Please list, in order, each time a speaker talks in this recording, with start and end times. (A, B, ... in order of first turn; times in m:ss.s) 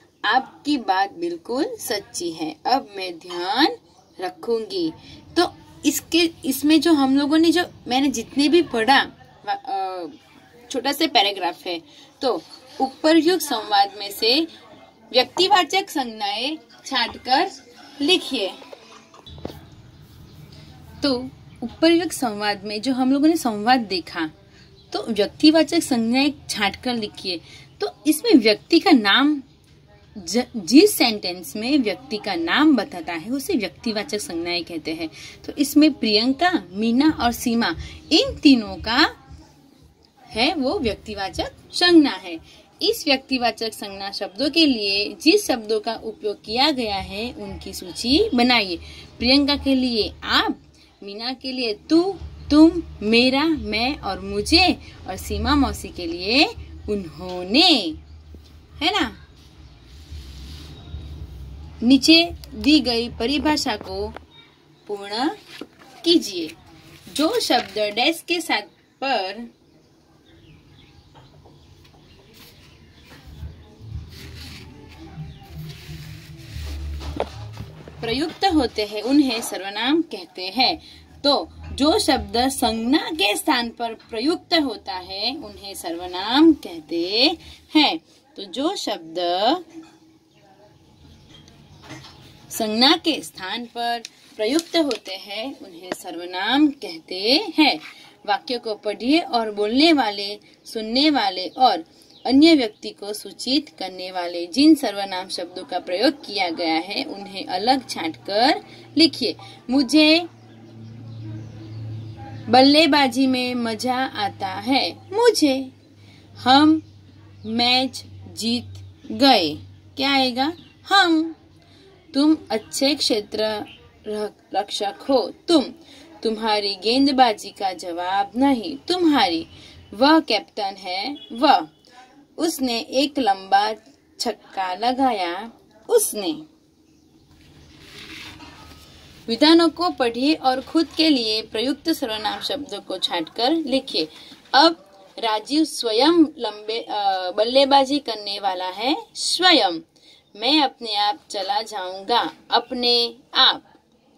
0:00.2-0:14.5 A
0:15.1-0:18.6 A
0:21.0-0:24.3 A
0:24.9-0:29.5 A
0:30.2-0:39.1 A
0:40.3-0:58.0 A
0:58.8-0:59.2 A
1:01.8-1:04.2 A
1:04.9-1:05.4 A
1:06.0-1:06.6 A
1:07.1-1:09.5 A
1:18.0-1:29.6 A
1:32.5-1:50.3 A
1:52.5-1:55.7 A
1:56.4-1:56.8 A
1:57.4-2:01.4 A
2:02.1-2:11.7 A
2:12.4-2:16.5 A
2:19.3-2:29.8 A
2:30.4-2:33.8 A